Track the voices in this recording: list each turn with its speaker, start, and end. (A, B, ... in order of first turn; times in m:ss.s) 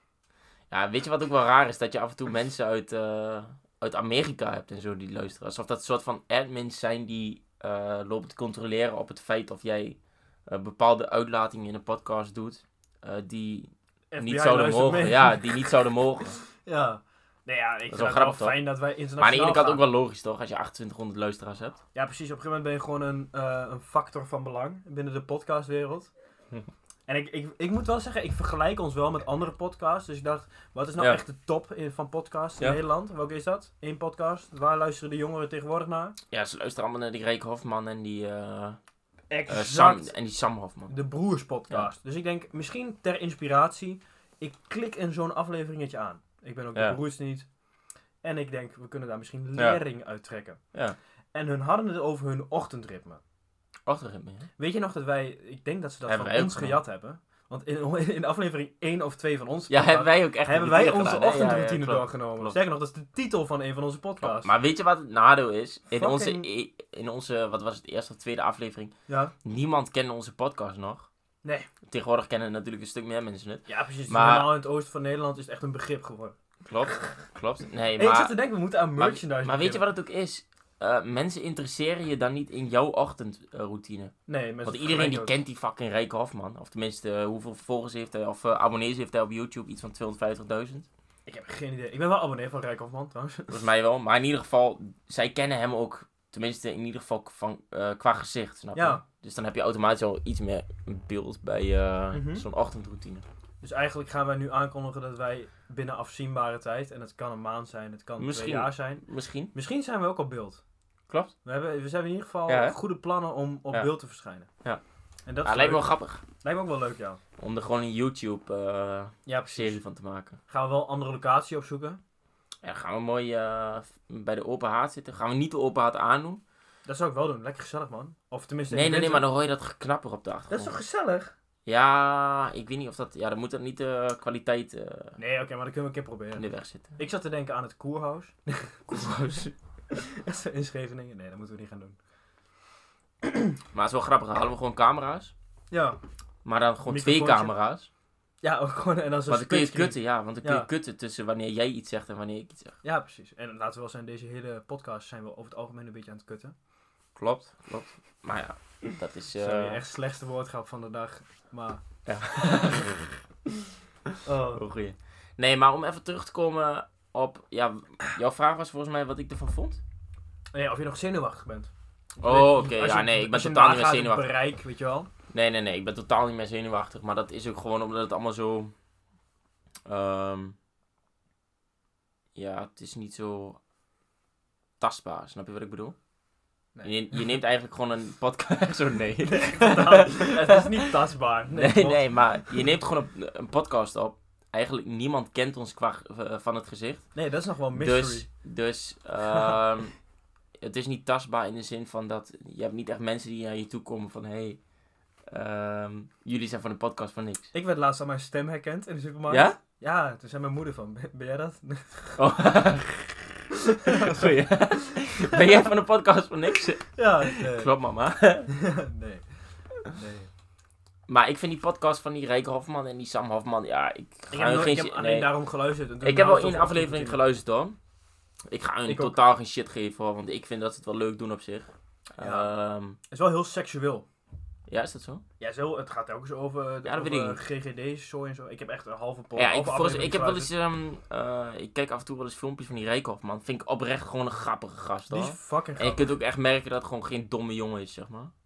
0:00.7-0:16.4 A
0:14.1-0:15.7 B
0:16.6-0:19.8 B
0:17.9-0:18.6 A
0:19.2-0:21.8 A
0:21.9-0:26.1 B
0:27.1-0:36.2 B
0:36.3-0:38.8 A
0:39.3-0:40.1 B
0:39.5-0:40.9 A
0:40.9-0:47.5 B
0:48.2-0:50.6 B
0:51.3-0:53.2 B
0:53.8-0:54.5 A
0:54.6-1:04.5 B
0:56.0-0:56.8 A
0:59.7-1:02.6 A
1:04.2-1:11.1 A
1:05.9-1:06.5 B
1:09.1-1:09.3 B
1:11.9-1:14.5 A
1:13.7-1:16.4 B
1:16.6-1:18.4 A
1:18.0-1:19.8 B
1:19.0-1:24.1 A
1:24.3-1:25.4 B
1:24.6-1:30.9 A
1:31.2-1:33.6 B
1:33.5-1:43.2 A
1:38.7-1:39.0 B
1:42.1-1:42.4 B
1:43.6-1:50.6 B
1:48.2-1:49.5 A
1:51.1-1:51.3 A
1:51.4-1:54.5 B
1:52.5-1:52.8 A
1:55.2-1:57.2 B
1:55.4-1:56.2 A
1:57.4-2:00.4 A
1:59.2-1:59.8 B
2:00.5-2:02.0 B
2:02.6-2:06.4 A
2:06.8-2:09.2 B
2:08.7-2:10.7 A
2:10.5-2:11.3 B
2:11.6-2:15.2 A
2:15.2-2:16.4 B
2:16.4-2:16.9 A
2:17.0-2:22.0 B
2:18.9-2:19.5 A
2:23.2-2:23.6 B
2:23.7-2:25.3 A
2:25.7-2:26.0 B
2:26.4-2:27.9 A
2:26.8-2:27.5 B
2:28.4-2:30.7 B
2:29.3-2:32.8 A
2:32.8-2:36.5 B
2:37.1-2:39.8 A
2:39.3-2:41.8 B
2:42.0-2:43.1 A
2:44.2-2:44.6 B
2:44.5-2:49.8 A
2:50.5-2:55.1 B
2:52.2-2:54.3 A
2:55.3-2:58.7 A
2:59.8-3:00.6 A
3:02.3-3:03.6 A
3:04.8-3:06.0 A
3:06.8-3:10.9 A
3:09.3-3:12.1 B
3:11.5-3:17.0 A
3:17.1-3:18.3 B
3:17.7-3:19.9 A
3:19.2-3:19.5 B
3:20.6-3:24.6 A
3:25.3-3:27.5 A
3:27.5-3:32.7 B
3:29.3-3:29.6 A
3:32.2-3:38.5 A
3:33.7-3:35.5 B
3:36.9-3:37.7 B
3:38.5-3:39.2 B
3:39.8-3:40.3 B
3:41.1-3:45.3 A
3:44.3-3:47.2 B
3:46.0-3:47.8 A
3:48.5-3:53.0 A
3:48.9-3:49.2 B
3:52.2-3:52.5 B
3:53.1-3:54.0 B
3:54.7-3:55.2 A
3:55.4-4:00.5 B
3:56.8-3:57.4 A
3:59.4-4:08.3 A
4:05.1-4:06.1 B